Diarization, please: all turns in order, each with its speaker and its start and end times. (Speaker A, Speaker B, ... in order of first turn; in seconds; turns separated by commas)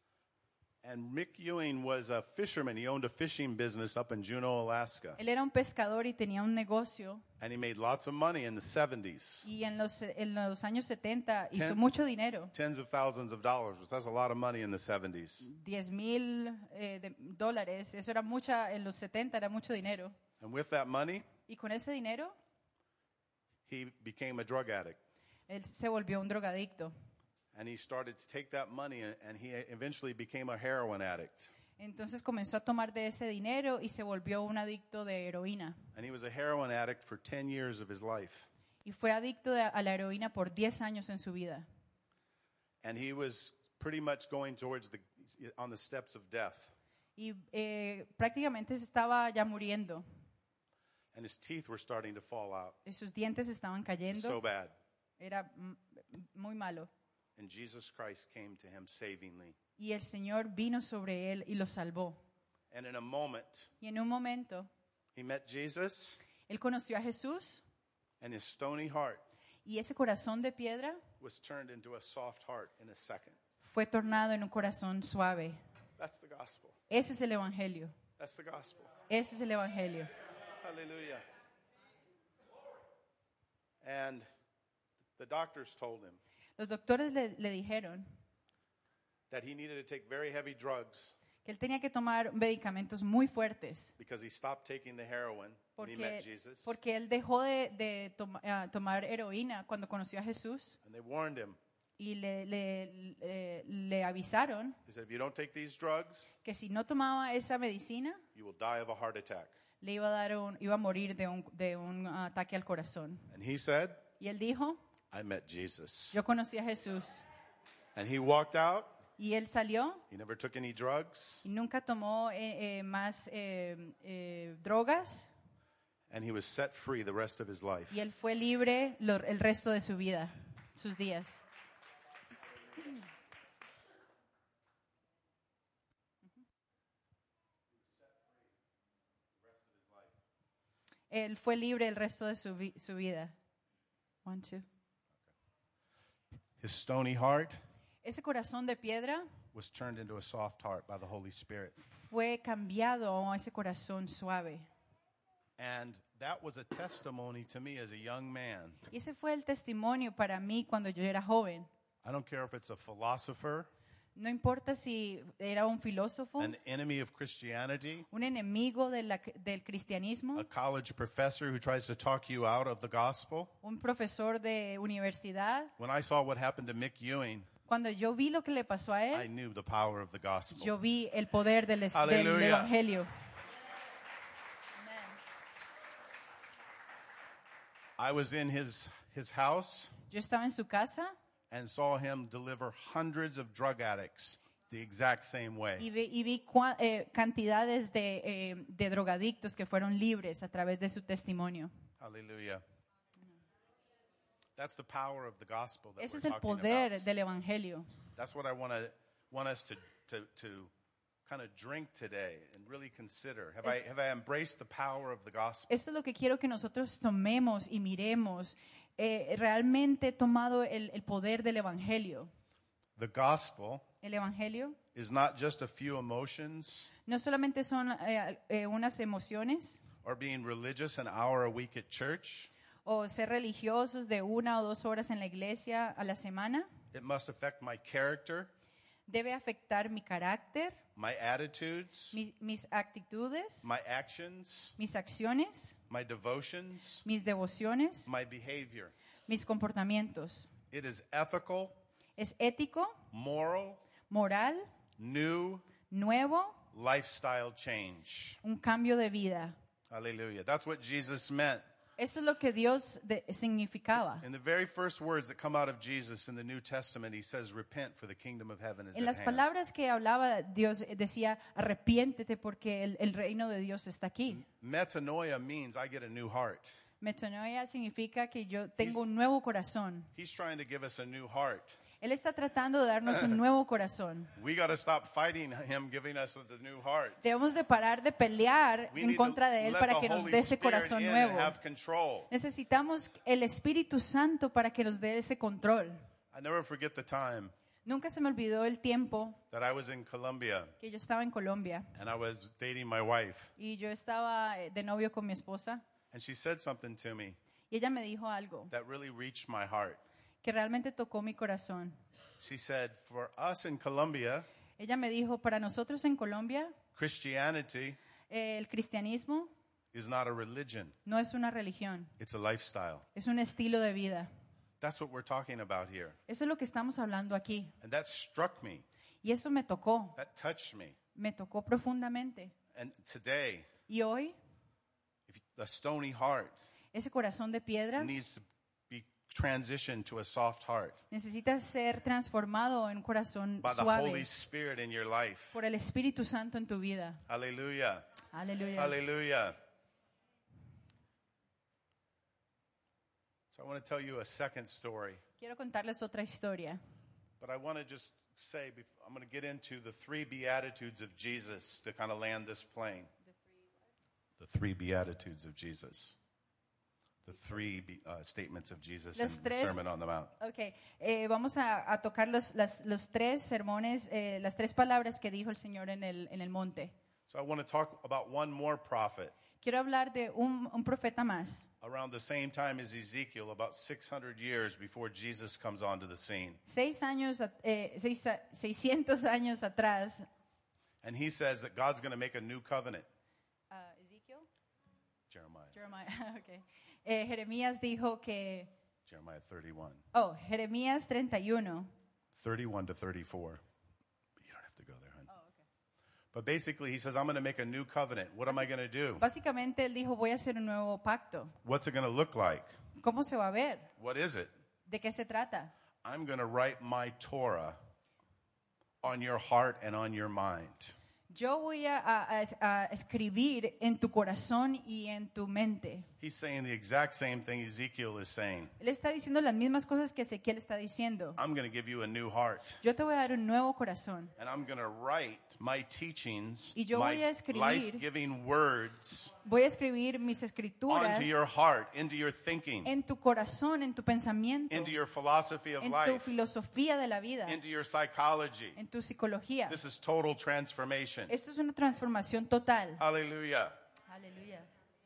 Speaker A: 0.8-5.2, Speaker B: 5.2-7.2, Speaker A: 7.4-9.5, Speaker B: 9.4-12.5, Speaker A: 11.5-11.8, Speaker A: 12.5-15.5, Speaker B: 15.4-20.1, Speaker A: 20.4-21.3, Speaker B: 21.5-22.3, Speaker A: 23.7-25.0, Speaker B: 25.5-26.9, Speaker A: 27.5-31.5, Speaker B: 31.8-35.8, Speaker A: 35.9-38.5, Speaker B: 38.8-41.6, Speaker A: 42.8-46.7, Speaker B: 47.2-50.0, Speaker A: 51.1-52.8, Speaker B: 52.8-54.4, Speaker A: 54.1-54.7, Speaker B: 55.2-56.9, Speaker A: 57.4-59.5, Speaker B: 59.8-62.2, Speaker A: 62.7-63.7, Speaker B: 63.8-64.7, Speaker A: 65.1-66.2, Speaker B: 66.5-67.6, Speaker A: 68.2-69.2, Speaker B: 69.6-71.0, Speaker A: 71.2-73.4, Speaker B: 73.6-75.6, Speaker A: 76.0-76.8, Speaker B: 76.9-78.0, Speaker A: 78.2-78.9, Speaker B: 79.1-80.1, Speaker A: 80.6-81.2, Speaker A: 83.8-84.2, Speaker A: 85.2-86.2, Speaker B: 86.6-88.0, Speaker A: 89.3-91.1, Speaker B: 91.4-93.9, Speaker A: 94.0-96.7, Speaker B: 95.8-100.8, Speaker A: 100.8-101.6, Speaker B: 102.0-104.8, Speaker A: 104.8-106.3, Speaker B: 106.4-108.2, Speaker A: 108.3-109.5, Speaker B: 109.8-113.3, Speaker A: 113.3-114.0, Speaker B: 114.2-114.8, Speaker A: 115.1-116.2, Speaker B: 116.1-117.2, Speaker A: 118.0-119.0, Speaker B: 119.2-120.0, Speaker A: 120.1-121.4, Speaker B: 121.4-125.3, Speaker A: 126.1-128.0, Speaker B: 127.9-131.4, Speaker A: 139.4-140.1, Speaker B: 141.1-143.3, Speaker B: 144.2-144.7, Speaker A: 146.6-147.6, Speaker B: 148.0-149.3, Speaker A: 149.5-151.8, Speaker B: 151.8-154.7, Speaker A: 155.6-158.8, Speaker B: 158.9-161.7, Speaker A: 162.0-163.7, Speaker B: 164.1-166.6, Speaker A: 166.4-168.1, Speaker B: 168.1-170.5, Speaker A: 170.3-173.5, Speaker B: 173.6-175.7, Speaker A: 175.8-177.5, Speaker B: 177.7-179.3, Speaker A: 179.1-180.7, Speaker B: 180.5-183.1, Speaker A: 181.9-182.7, Speaker B: 184.8-185.1, Speaker A: 188.0-189.9, Speaker B: 190.1-191.1, Speaker A: 191.5-195.8, Speaker B: 195.8-201.7, Speaker A: 202.0-202.6, Speaker A: 204.6-207.1, Speaker B: 206.0-207.9, Speaker A: 208.2-210.7, Speaker A: 211.2-215.7, Speaker B: 215.7-222.3, Speaker A: 223.0-223.8, Speaker B: 224.0-224.8, Speaker A: 224.9-226.9, Speaker B: 227.1-229.8, Speaker A: 230.0-232.5, Speaker B: 232.8-236.7, Speaker A: 236.9-238.5, Speaker B: 239.1-240.8, Speaker A: 240.9-242.2, Speaker B: 242.1-243.7, Speaker A: 243.6-244.8, Speaker B: 244.8-245.8, Speaker A: 245.9-247.1, Speaker B: 247.0-248.1, Speaker A: 248.0-248.9, Speaker B: 249.3-250.5, Speaker A: 250.7-251.8, Speaker B: 252.2-253.0, Speaker A: 253.1-253.8, Speaker B: 254.1-254.7, Speaker A: 255.0-255.7, Speaker B: 255.9-256.6, Speaker A: 256.7-258.4, Speaker B: 258.4-259.6, Speaker A: 259.9-261.6, Speaker B: 262.0-264.2, Speaker A: 264.2-269.5, Speaker B: 268.9-274.4, Speaker A: 274.3-276.8, Speaker B: 277.0-280.1, Speaker A: 280.1-281.8, Speaker B: 282.0-284.3, Speaker A: 284.4-287.2, Speaker B: 287.2-291.6, Speaker A: 288.9-292.3, Speaker B: 292.3-296.0, Speaker A: 296.3-297.5, Speaker B: 297.8-299.4, Speaker A: 299.5-300.8, Speaker B: 300.8-301.9, Speaker A: 301.9-303.5, Speaker B: 303.6-305.8, Speaker A: 306.1-307.4, Speaker B: 307.7-308.7, Speaker A: 308.7-310.0, Speaker B: 310.4-312.0, Speaker A: 312.4-314.4, Speaker B: 314.8-316.8, Speaker A: 316.9-318.0, Speaker B: 318.3-319.5, Speaker A: 319.9-321.0, Speaker B: 321.1-322.1, Speaker A: 322.2-323.1, Speaker B: 323.1-324.3, Speaker A: 324.8-326.2, Speaker B: 326.3-327.7, Speaker A: 327.8-328.8, Speaker B: 329.2-330.2, Speaker A: 330.1-331.0, Speaker B: 331.1-332.5, Speaker A: 332.7-333.7, Speaker B: 333.9-334.4, Speaker A: 335.3-336.6, Speaker B: 336.9-338.1, Speaker A: 338.0-341.0, Speaker B: 341.1-344.3, Speaker A: 343.6-345.6, Speaker B: 345.5-347.2, Speaker A: 347.3-348.1, Speaker B: 348.3-349.0, Speaker A: 348.8-349.6, Speaker A: 353.5-355.2, Speaker B: 355.4-356.8, Speaker A: 357.4-363.1, Speaker A: 364.4-366.2, Speaker A: 367.2-370.3, Speaker B: 369.1-369.8, Speaker B: 370.4-376.9, Speaker A: 377.3-379.3, Speaker B: 379.6-381.7, Speaker A: 381.8-386.6, Speaker B: 386.6-390.3, Speaker A: 391.0-393.1, Speaker B: 393.7-394.5, Speaker A: 395.3-395.8, Speaker B: 395.7-398.7, Speaker A: 399.1-400.0, Speaker B: 400.1-401.9, Speaker A: 402.3-403.6, Speaker A: 404.4-405.3, Speaker B: 405.3-405.6, Speaker A: 406.3-409.2, Speaker B: 408.5-411.5, Speaker A: 411.6-412.8, Speaker B: 413.0-413.9, Speaker A: 414.0-414.5, Speaker B: 414.9-415.7, Speaker A: 416.0-417.8, Speaker A: 419.0-420.9, Speaker B: 421.3-426.1, Speaker A: 426.2-428.7, Speaker B: 428.8-431.4, Speaker A: 431.4-432.8, Speaker B: 432.8-434.3, Speaker A: 434.4-439.3, Speaker B: 436.7-438.0, Speaker B: 439.4-441.4, Speaker A: 440.9-442.9, Speaker B: 442.8-444.9, Speaker A: 444.7-446.3, Speaker B: 445.8-447.6, Speaker A: 447.5-448.8, Speaker B: 448.8-449.8, Speaker A: 449.7-451.3, Speaker B: 451.3-453.0, Speaker A: 453.0-453.7, Speaker B: 454.1-454.7